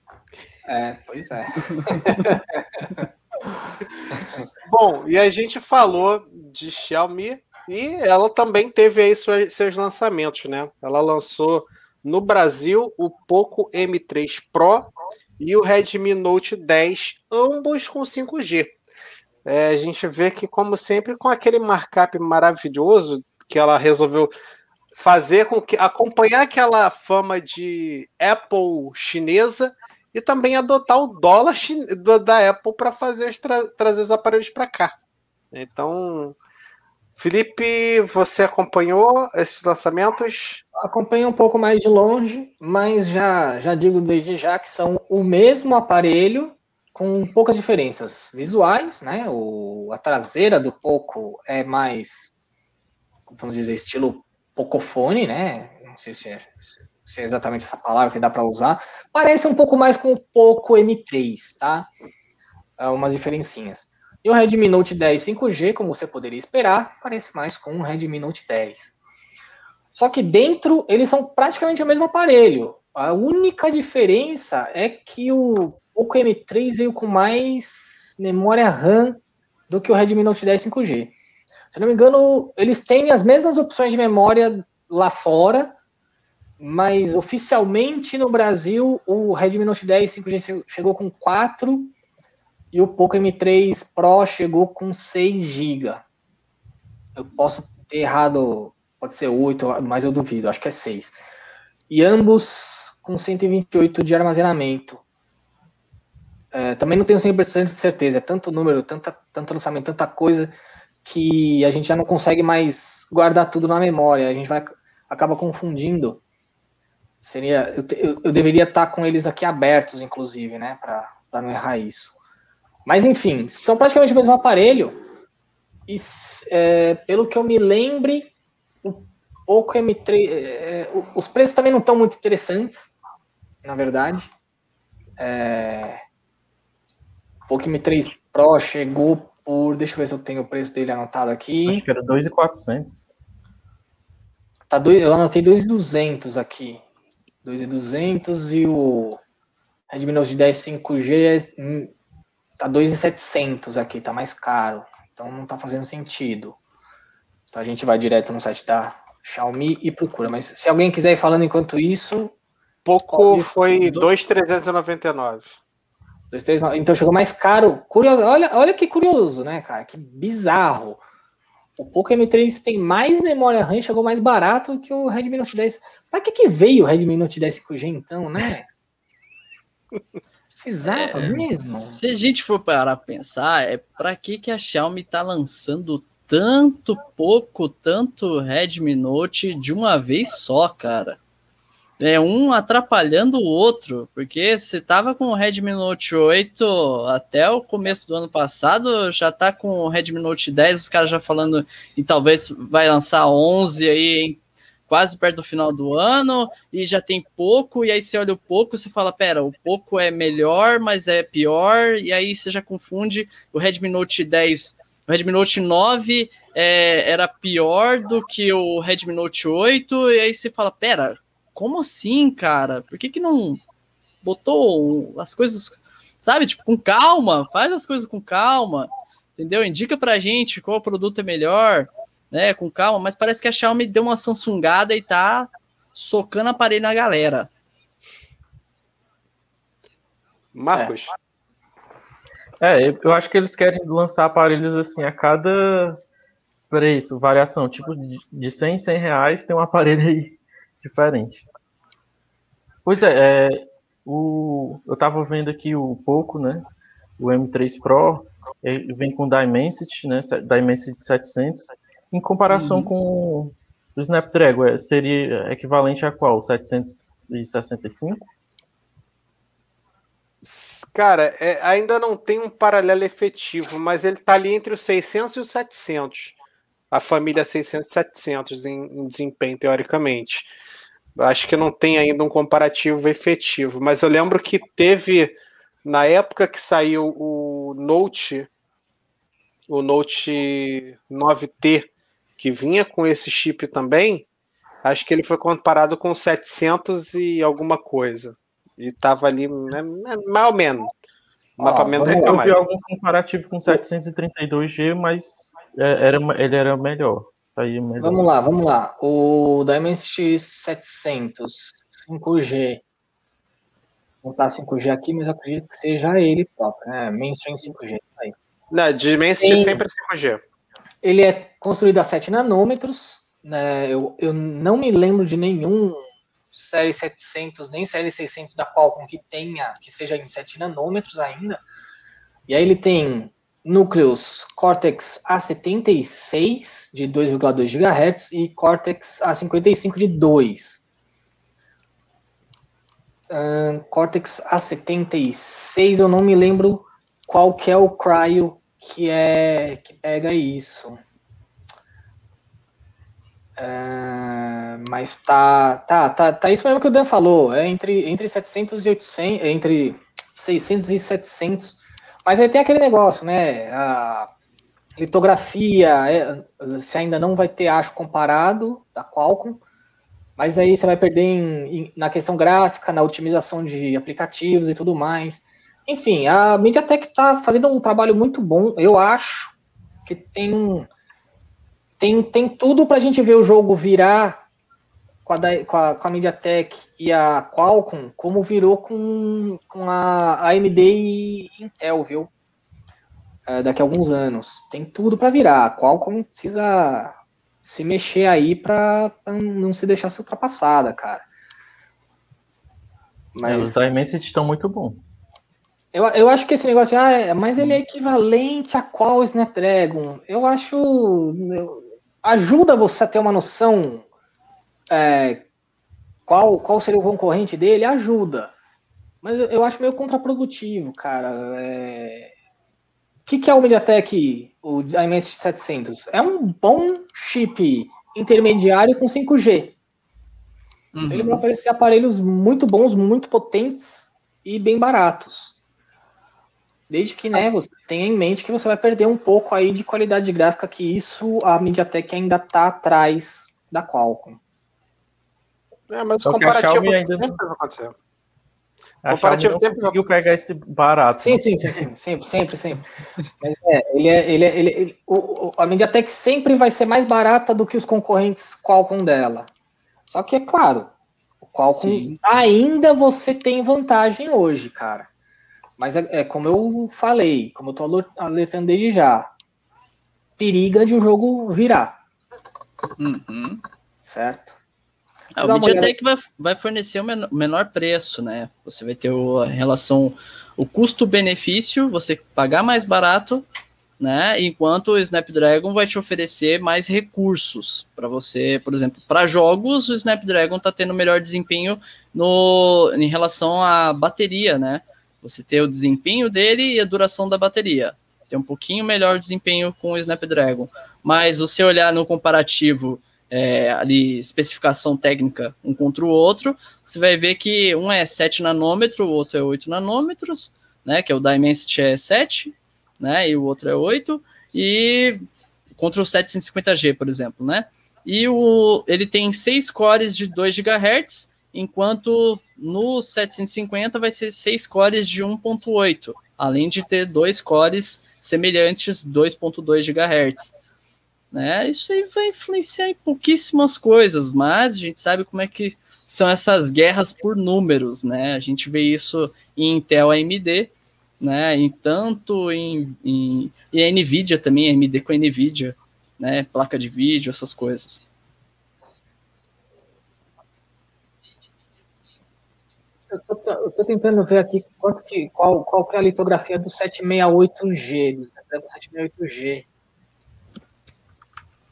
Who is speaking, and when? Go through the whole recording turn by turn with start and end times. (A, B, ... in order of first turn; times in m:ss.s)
0:00.7-0:03.1 A
0:04.1-0:04.4 A
0:04.7-0:18.8 B
0:19.4-0:24.3 B
0:25.0-0:35.0 B
0:35.5-0:36.4 B
0:37.2-0:40.6 B
0:40.8-0:52.3 A
0:53.3-1:01.9 A
1:02.8-1:09.0 A
1:09.9-1:21.1 A
1:21.7-1:25.7 A
1:26.6-1:31.9 A
1:32.7-1:36.0 A
1:37.2-1:41.2 A
1:41.9-1:45.0 A
1:46.5-1:56.2 A
1:57.2-2:02.2 A
2:02.9-2:05.0 A
2:05.9-2:08.3 A
2:08.8-2:12.9 A
2:13.6-2:14.3 A
2:15.2-2:16.0 A
2:17.5-2:21.8 A
2:21.7-2:23.1 C
2:24.7-2:26.8 A
2:27.4-2:29.2 A
2:29.9-2:31.9 A
2:32.6-2:36.6 A
2:37.5-2:42.4 A
2:42.8-2:45.6 B
2:43.1-2:44.1 A
2:46.3-2:51.0 A
2:51.8-2:58.7 A
3:00.5-3:02.0 A
3:00.9-3:11.2 D
3:12.0-3:43.6 D
3:44.2-3:57.5 D
4:00.5-4:01.1 B
4:02.6-4:06.0 C
4:06.7-4:11.5 C
4:12.8-4:16.6 C
4:17.2-4:28.3 C
4:22.5-4:22.9 D
4:30.4-4:36.4 B
4:36.9-4:40.5 B
4:41.2-4:48.5 B
4:49.7-4:54.3 B
4:54.8-5:00.9 B
5:01.6-5:02.6 B
5:01.6-5:02.4 A
5:02.0-5:08.2 C
5:08.0-5:12.8 A
5:14.2-5:18.4 A
5:18.7-5:20.4 B
5:19.4-5:19.8 A
5:21.0-5:31.6 A
5:32.5-5:40.8 A
5:43.3-5:51.0 A
5:53.6-6:04.3 A
6:05.0-6:09.6 A
6:10.4-6:19.6 A
6:20.1-6:20.9 A
6:22.0-6:24.4 A
6:25.3-6:32.3 A
6:33.5-6:41.2 A
6:43.4-6:43.9 A
6:43.4-6:45.0 C
6:45.9-6:54.0 A
6:54.9-6:55.4 A
6:56.3-6:58.5 A
6:59.2-7:02.3 A
7:03.3-7:09.8 A
7:10.9-7:11.4 D
7:11.1-7:15.5 A
7:16.9-7:24.4 A
7:25.9-7:28.0 B
7:26.2-7:27.4 C
7:29.0-7:31.4 C
7:29.1-7:30.3 B
7:31.2-7:32.9 A
7:33.4-7:39.5 A
7:40.1-7:40.9 A
7:41.4-7:45.1 A
7:41.7-7:42.4 D
7:45.8-7:49.3 A
7:50.4-7:52.0 A
7:53.0-7:53.6 D
7:54.0-7:54.6 A
7:55.4-7:55.9 A
7:55.4-8:03.4 D
8:04.0-8:35.3 D
8:35.8-8:50.5 D
8:51.3-9:08.0 D
9:13.1-9:19.7 A